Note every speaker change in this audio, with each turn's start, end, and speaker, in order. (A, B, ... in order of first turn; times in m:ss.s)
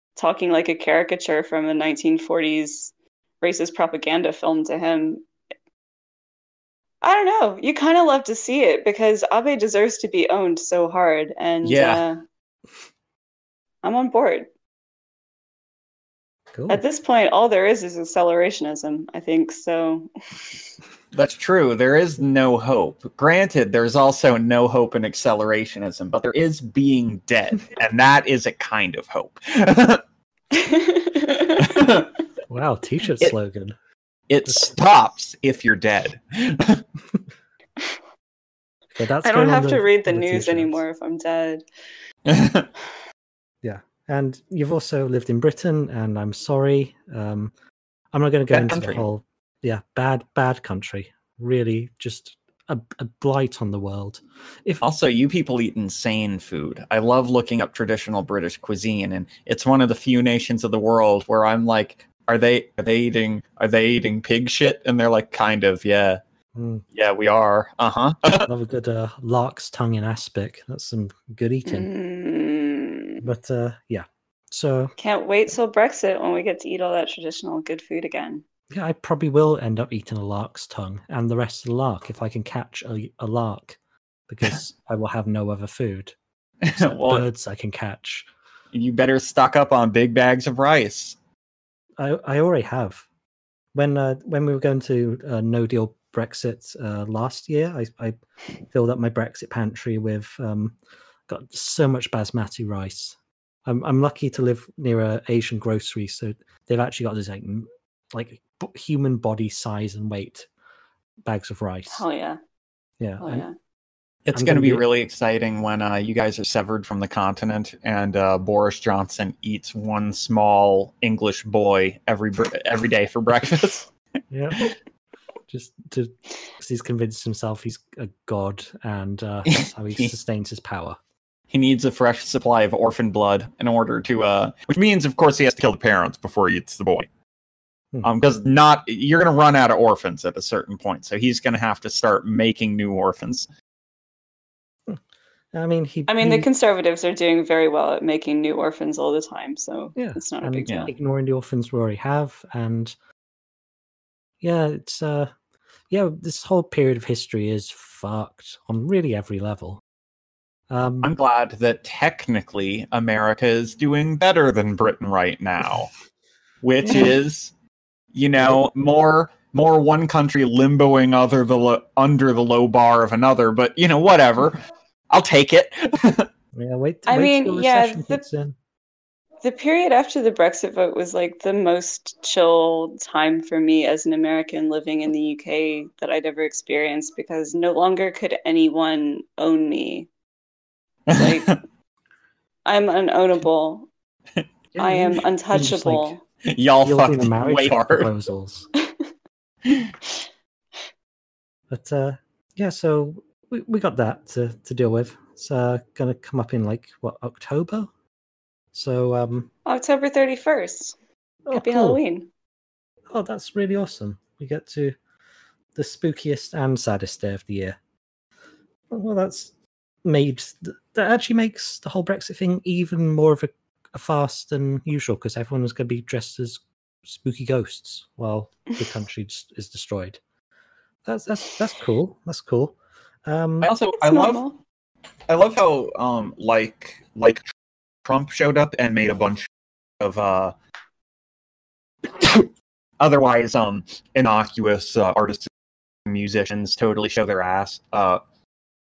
0:00.2-0:05.2 A
0:07.0-0:12.2 A
0:11.6-0:12.0 B
0:13.8-0:14.5 A
0:16.5-0:16.8 C
0:16.7-0:20.1 A
0:21.1-0:30.0 B
0:30.5-0:31.8 A
0:31.6-0:32.1 B
0:32.5-0:33.7 C
0:34.3-0:36.8 B
0:39.0-0:40.8 C
0:39.2-0:41.6 A
0:42.3-0:42.7 B
0:43.6-0:47.5 C
0:48.1-0:54.8 C
0:48.5-0:49.0 B
0:54.8-1:06.2 B
1:06.6-1:06.8 C
1:06.9-1:08.5 B
1:08.5-1:11.9 C
1:11.7-1:13.2 A
1:13.2-1:14.9 C
1:15.0-1:18.4 A
1:18.7-1:26.2 C
1:26.6-1:27.3 B
1:26.8-1:28.3 C
1:28.7-1:31.2 B
1:32.0-1:33.1 C
1:33.7-1:38.2 C
1:38.7-1:40.8 C
1:41.3-1:50.5 C
1:51.2-1:52.0 C
1:51.9-1:52.4 A
1:53.0-1:53.5 C
1:53.2-1:53.5 A
1:54.2-2:03.9 B
1:54.3-1:54.8 C
2:04.3-2:04.7 C
2:05.5-2:11.0 C
2:09.5-2:10.1 B
2:11.5-2:17.1 B
2:18.0-2:23.5 B
2:25.5-2:26.5 C
2:26.1-2:30.9 A
2:30.0-2:32.9 C
2:34.4-2:35.3 C
2:35.9-2:39.8 C
2:40.7-2:41.1 C
2:41.0-2:45.9 B
2:46.6-2:47.5 B
2:46.8-2:47.1 C
2:48.1-2:54.6 B
2:55.1-2:56.3 B
2:56.5-2:58.6 C
2:57.1-2:58.2 A
2:59.4-3:10.1 A
3:11.1-3:11.6 B
3:11.1-3:11.6 A
3:12.6-3:13.9 A
3:14.7-3:16.2 C
3:14.8-3:16.2 A
3:16.4-3:18.1 B
3:16.8-3:18.7 C
3:18.8-3:19.1 A
3:19.7-3:19.9 B
3:21.7-3:27.9 C
3:28.7-3:29.5 C
3:29.6-3:31.0 A
3:31.4-3:32.0 C
3:31.5-3:32.3 A
3:33.1-3:35.0 C
3:35.7-3:37.8 C
3:38.9-3:39.5 C
3:40.0-3:50.2 C
3:51.0-3:53.7 C
3:53.6-3:54.4 B
3:54.0-3:54.6 A
3:55.3-3:57.4 B
3:58.0-3:59.5 B
4:00.0-4:00.5 B
4:02.1-4:05.5 B
4:06.1-4:08.2 B